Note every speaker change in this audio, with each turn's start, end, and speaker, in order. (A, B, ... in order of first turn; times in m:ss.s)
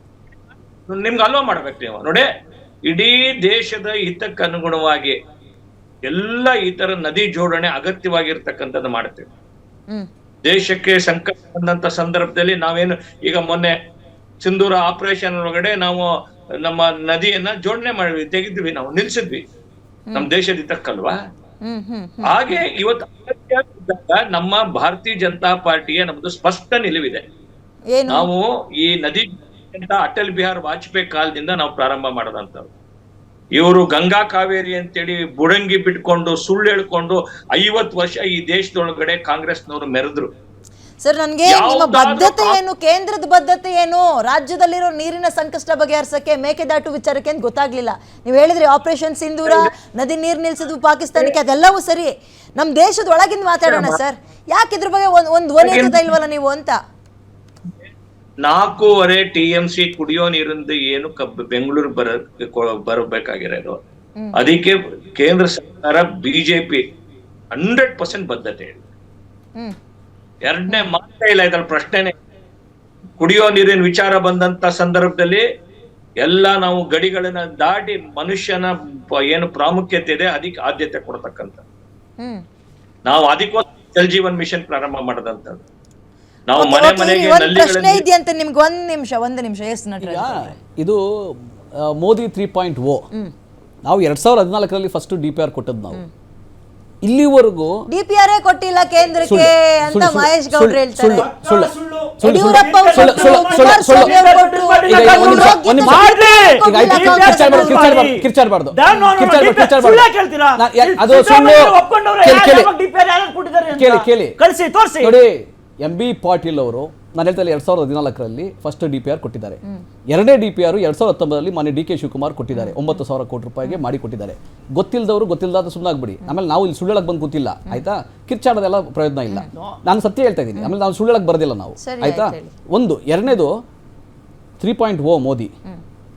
0:00.9-0:02.3 A
0:02.8-0:05.2 A
0:06.0-0:09.3 A
0:10.4-0:13.7 A
0:14.4-0:16.1 A
0:16.6-0:19.4 A
0:20.1-0:21.2 A
0:21.6-0:22.4 B
0:22.2-0:27.2 A
0:27.9-0:28.3 B
0:28.1-0:32.7 A
0:33.5-0:40.3 A
0:41.0-0:56.8 B
0:41.4-0:42.6 A
0:53.7-0:54.0 A
0:55.6-0:56.1 A
0:58.4-1:03.8 A
1:04.3-1:06.8 A
1:07.5-1:08.8 A
1:10.4-1:12.1 A
1:13.2-1:15.4 A
1:16.2-1:21.6 A
1:23.0-1:25.6 A
1:26.5-1:28.0 A
1:26.6-1:30.6 B
1:30.0-1:33.1 C
1:33.8-1:36.0 C
1:37.0-1:37.9 C
1:37.9-1:41.3 B
1:39.2-1:44.1 C
1:41.3-1:55.1 D
1:42.2-1:48.0 B
1:44.9-1:46.0 C
1:46.6-1:52.7 C
1:53.7-1:54.4 C
1:55.0-2:13.6 C
2:02.5-2:02.8 B
2:11.8-2:12.5 B
2:14.6-2:15.5 C